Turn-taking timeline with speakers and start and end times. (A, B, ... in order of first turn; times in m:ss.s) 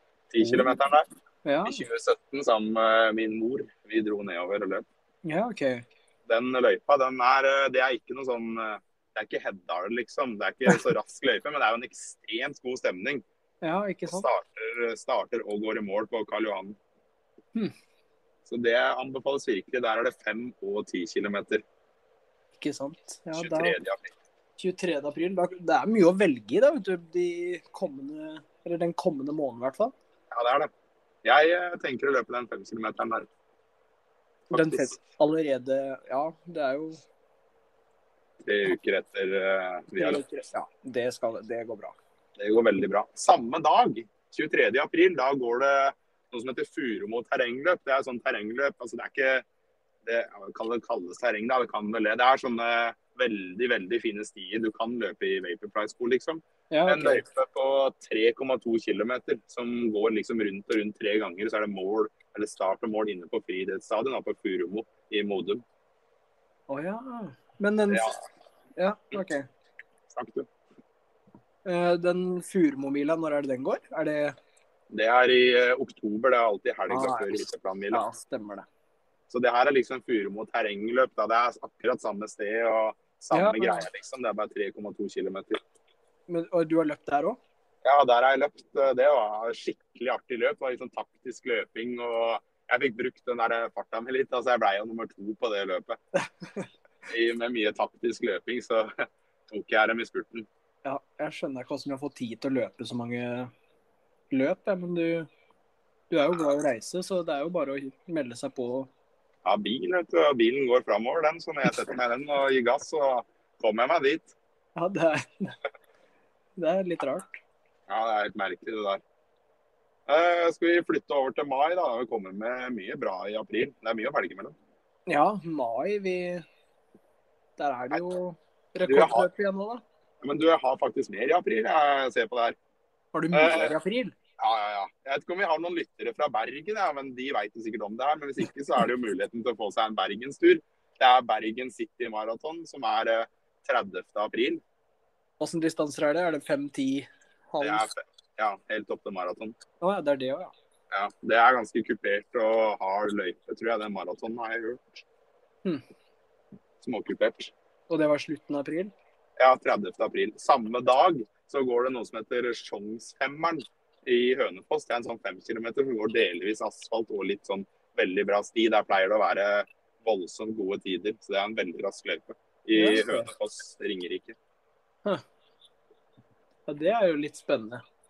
0:00.3-0:01.1 A
0:00.4-0:00.8 B
0:01.4-0:01.8 B
0:01.6-0:04.9 A
0:05.2-0:05.8 B
0:06.3-0:13.2 A
0:13.6-0:14.3 B
0:14.1-0:16.8 A
0:18.5-0:21.6 A
0:22.6-0:23.8 B
0:23.3-0:24.1 A
0:24.6-0:29.9 B
0:30.3-0:30.7 A
0:31.2-0:33.3 A
0:34.5-0:35.0 A
0:34.5-0:37.0 B
0:38.4-0:40.2 A
0:40.0-0:42.0 B
0:42.4-0:49.4 A
0:50.0-1:05.6 A
0:56.7-0:57.3 B
1:06.7-1:08.1 B
1:07.9-1:08.2 A
1:08.8-1:09.5 B
1:10.1-1:10.5 A
1:11.6-1:14.4 B
1:14.9-1:18.1 A
1:16.9-1:18.7 B
1:19.3-1:25.6 A
1:23.3-1:23.9 B
1:26.3-1:27.4 B
1:27.8-1:36.0 A
1:36.4-1:36.7 B
1:37.1-1:40.5 A
1:40.8-1:43.5 B
1:44.3-1:45.3 B
1:46.1-1:48.9 B
1:49.4-1:54.3 A
1:54.8-1:55.6 B
1:56.6-1:57.4 B
1:57.9-1:59.0 A
2:00.1-2:04.5 A
2:05.1-2:06.4 B
2:07.6-2:09.8 B
2:08.9-2:09.3 A
2:10.2-2:12.6 A
2:13.1-2:14.1 B
2:13.3-2:13.8 A
2:14.4-2:24.6 A
2:25.4-2:27.9 B
2:27.6-2:29.6 A
2:29.8-2:30.5 B
2:30.9-2:35.0 A
2:36.8-2:37.5 A
2:37.9-2:38.9 B
2:39.4-2:54.4 A
2:52.8-2:53.3 B
2:56.7-2:57.8 B